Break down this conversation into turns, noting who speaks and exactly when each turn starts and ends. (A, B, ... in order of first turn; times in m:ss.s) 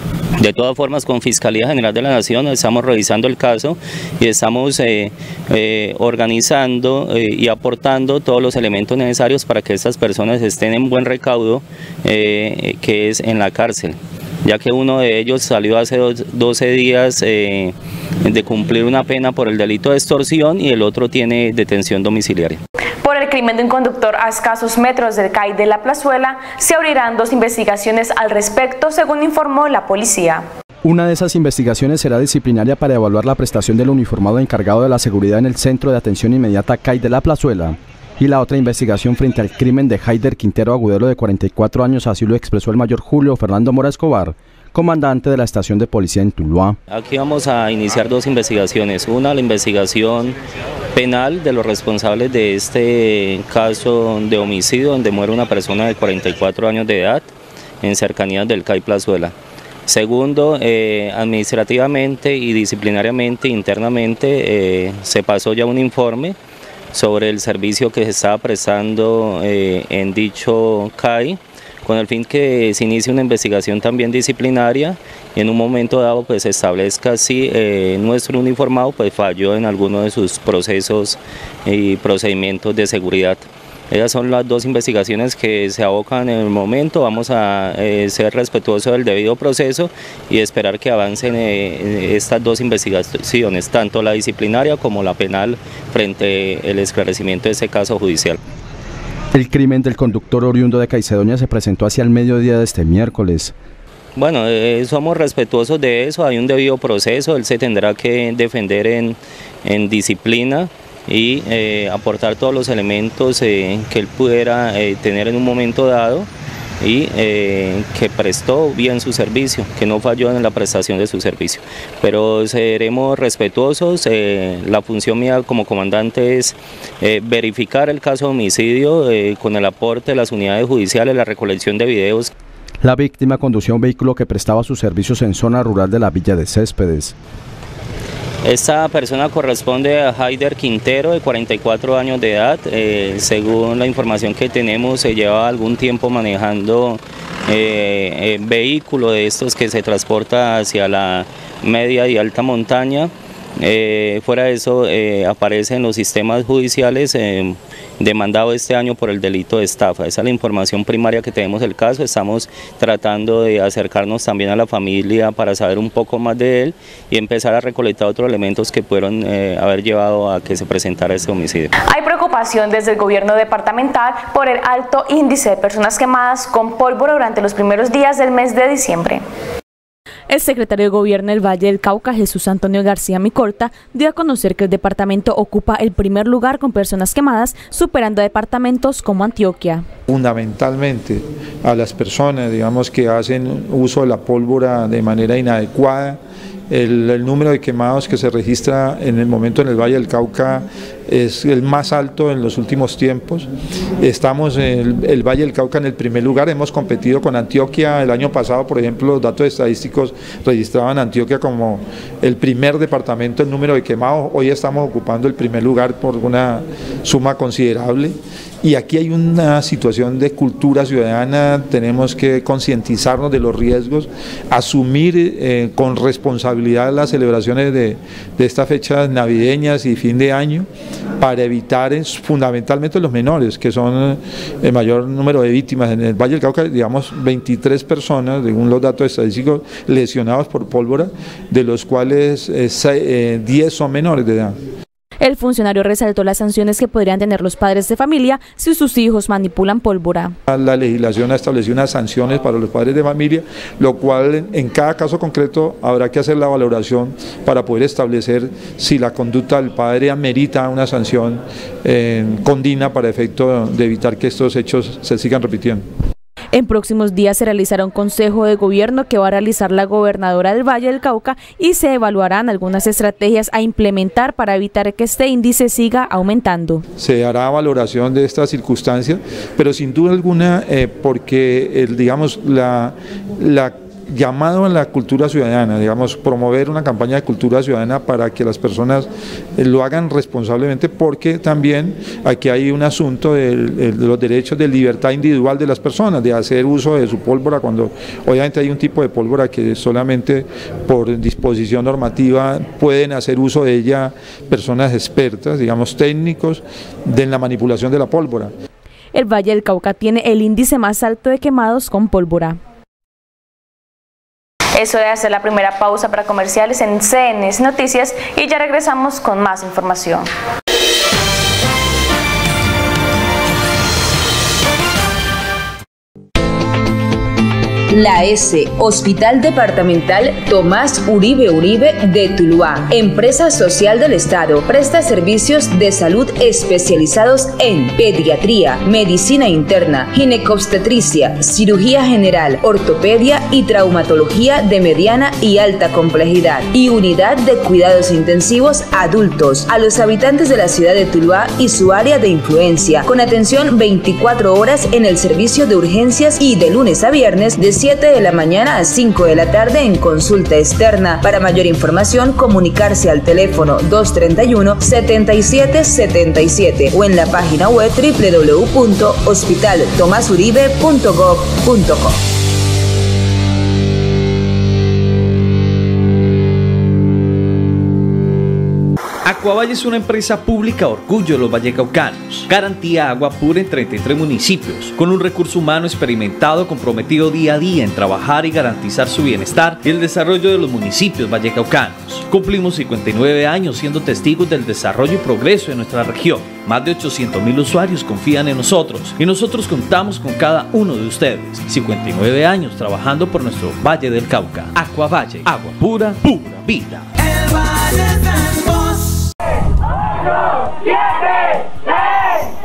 0:00.4-0:22.6 A
0:23.0-0:30.4 B
0:30.8-0:46.8 C
0:46.9-0:50.4 A
0:50.9-0:57.3 A
0:57.8-0:59.3 A
0:59.9-1:06.4 A
1:06.9-1:38.4 A
1:39.3-1:43.5 C
1:44.2-1:56.3 A
1:56.8-2:12.3 A
2:12.8-2:17.1 C
2:18.4-2:51.7 A
2:51.9-2:59.2 B
3:00.3-3:09.8 D
3:10.1-3:23.5 E
3:24.0-3:50.7 E
3:51.2-4:04.6 E
4:05.2-4:10.3 D
4:10.5-4:25.8 E
4:26.5-4:36.8 D
4:37.0-5:08.5 E
5:09.1-5:12.6 D
5:14.8-5:20.2 B
5:27.9-6:12.2 F
6:19.2-6:47.1 G